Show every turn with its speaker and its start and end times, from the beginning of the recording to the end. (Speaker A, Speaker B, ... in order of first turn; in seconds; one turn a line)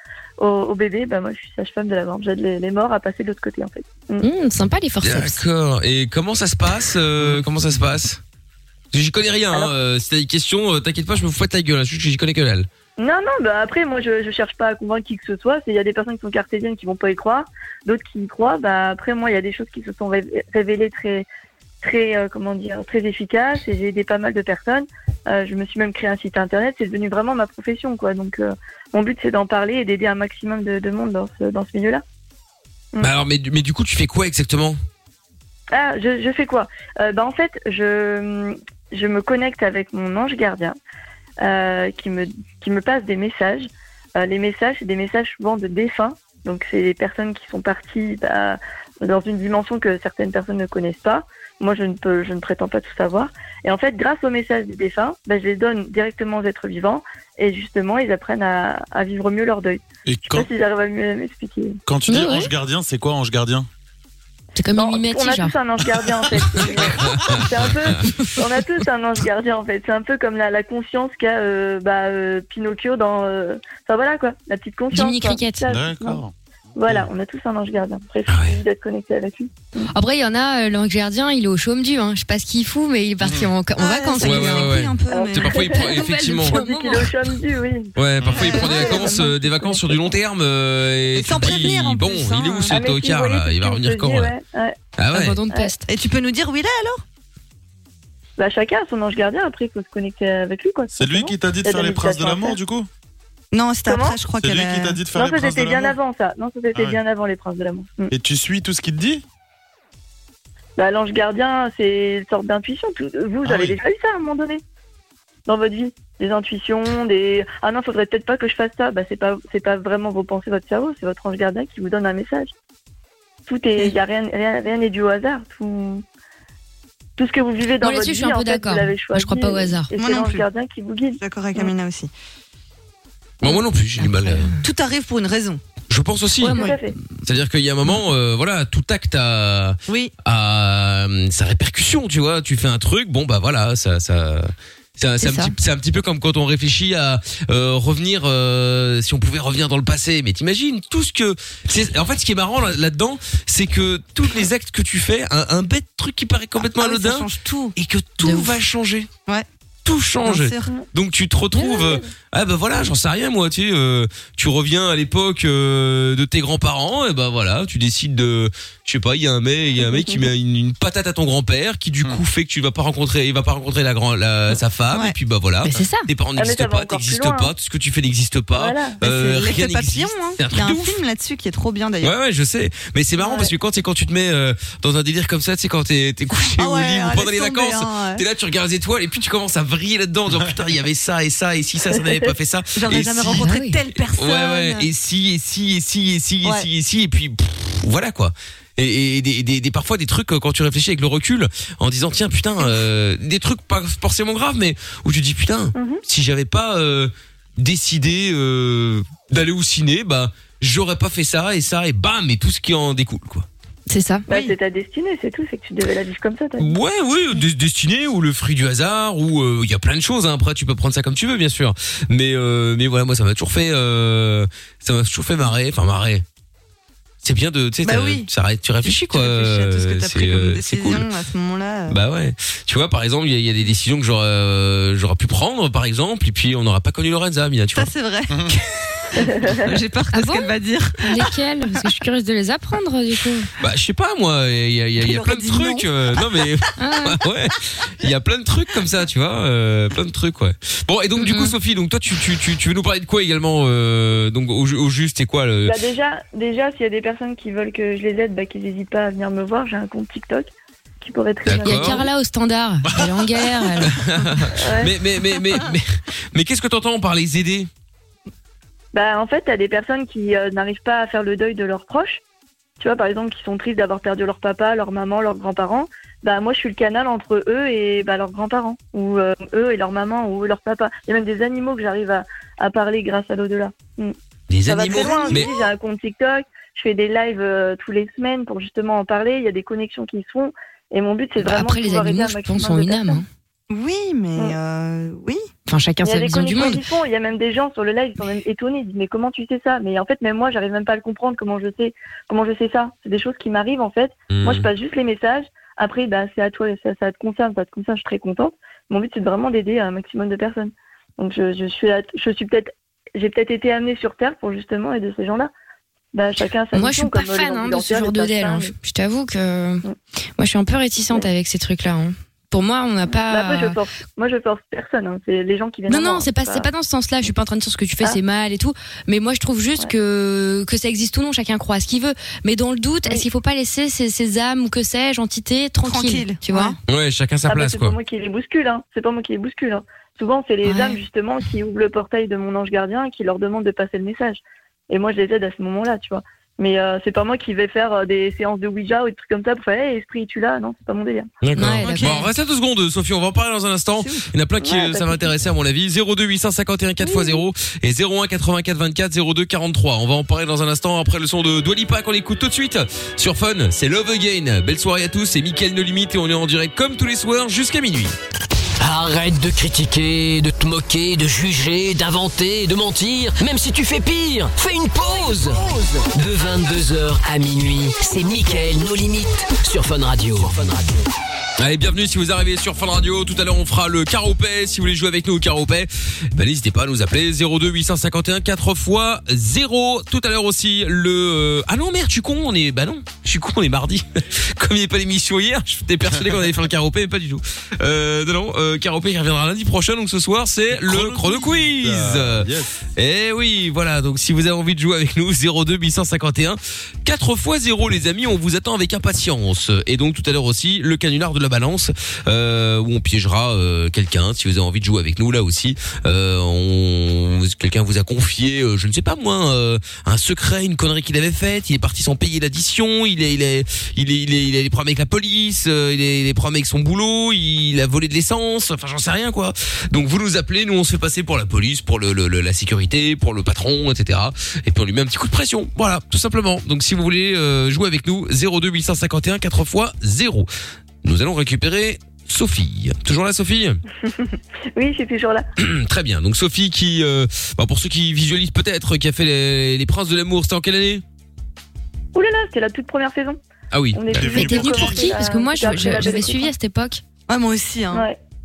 Speaker A: 0.4-4.2
Speaker B: 4.2-5.4
Speaker C: 5.0-8.2
Speaker C: 8.9-12.7
Speaker A: 13.0-21.3
Speaker A: 21.8-32.0
Speaker C: 33.0-34.8
Speaker A: 35.7-40.8
Speaker A: 41.4-61.8
Speaker D: 60.0-60.5
Speaker D: 61.9-63.7
Speaker B: 62.1-62.5
Speaker B: 64.5-65.5
Speaker A: 64.8-76.2
Speaker C: 66.9-67.7
Speaker B: 74.9-75.7
Speaker D: 75.7-76.3
Speaker A: 76.8-79.9
Speaker C: 78.3-78.6
Speaker B: 79.9-84.8
Speaker D: 83.2-83.5
Speaker E: 83.8-85.9
Speaker C: 84.2-86.6
Speaker A: 85.1-90.1
Speaker B: 85.7-87.1
Speaker C: 88.0-94.3
Speaker D: 88.2-88.5
Speaker E: 88.6-89.1
Speaker E: 91.1-92.7
Speaker A: 92.7-94.8
Speaker C: 95.0-95.4
Speaker B: 95.1-95.9
Speaker E: 95.9-97.0
Speaker A: 98.4-102.6
Speaker D: 100.9-102.9
Speaker E: 103.5-105.0
Speaker A: 103.8-104.2
Speaker D: 104.4-106.0
Speaker A: 105.1-108.1
Speaker D: 108.1-109.2
Speaker A: 110.8-114.6
Speaker D: 113.4-113.8
Speaker A: 115.5-122.5
Speaker A: 123.5-126.0
Speaker A: 127.2-131.7
Speaker B: 127.8-129.9
Speaker E: 129.9-130.5
Speaker E: 131.2-132.1
Speaker C: 133.4-134.5
Speaker B: 134.0-134.6
Speaker E: 134.6-135.6
Speaker C: 135.9-136.6
Speaker A: 136.4-136.9
Speaker B: 136.5-136.8
Speaker C: 137.2-159.1
Speaker E: 139.9-140.1
Speaker B: 145.2-145.5
Speaker E: 156.6-157.7
Speaker B: 158.2-158.6
Speaker C: 159.8-181.0
Speaker E: 160.2-160.7
Speaker A: 161.6-162.1
Speaker A: 169.8-170.2
Speaker E: 174.9-175.2
Speaker B: 175.7-176.1
Speaker A: 176.4-177.5
Speaker A: 178.5-179.0
Speaker E: 179.0-182.1
Speaker C: 182.0-193.5
Speaker A: 183.2-183.5
Speaker E: 186.3-188.2
Speaker A: 192.0-192.2
Speaker E: 192.7-194.8
Speaker B: 193.3-193.8
Speaker C: 194.1-213.5
Speaker A: 205.7-206.0
Speaker B: 213.9-214.3
Speaker A: 214.3-216.7
Speaker C: 216.6-226.2
Speaker C: 227.2-231.1
Speaker E: 227.8-228.3
Speaker E: 228.8-232.0
Speaker C: 231.9-237.9
Speaker E: 237.7-241.3
Speaker B: 240.1-243.5
Speaker C: 243.6-255.7
Speaker E: 245.0-245.9
Speaker B: 246.8-247.2
Speaker B: 251.2-251.5
Speaker A: 255.6-260.5
Speaker A: 261.0-262.1
Speaker C: 261.4-262.1
Speaker B: 261.6-264.5
Speaker D: 262.9-263.4
Speaker C: 263.8-267.7
Speaker A: 264.5-264.9
Speaker A: 268.9-272.2
Speaker A: 272.8-284.1
Speaker C: 284.5-285.5
Speaker A: 284.6-293.2
Speaker E: 284.9-285.6
Speaker B: 291.4-293.2
Speaker E: 293.7-295.5
Speaker B: 295.7-296.8
Speaker A: 296.0-315.5
Speaker C: 304.3-304.7
Speaker A: 316.1-318.7
Speaker B: 316.7-319.8
Speaker B: 320.4-323.8
Speaker A: 323.3-326.7
Speaker B: 325.9-336.8
Speaker E: 335.9-336.8
Speaker C: 336.9-337.9
Speaker A: 337.5-351.3
Speaker B: 340.6-341.0
Speaker C: 351.4-368.1
Speaker B: 351.6-352.2
Speaker E: 351.8-352.3
Speaker E: 354.0-354.3
Speaker A: 354.6-355.3
Speaker A: 357.0-357.4
Speaker F: 368.8-381.0
Speaker C: 381.6-440.5
Speaker D: 400.8-402.7
Speaker C: 441.0-443.8
Speaker A: 444.1-445.4
Speaker C: 445.6-451.0
Speaker A: 452.1-453.4
Speaker C: 453.7-454.3
Speaker A: 453.9-456.5
Speaker D: 454.1-455.1
Speaker B: 454.3-457.0
Speaker D: 455.7-456.2
Speaker E: 457.3-458.1
Speaker A: 457.9-458.2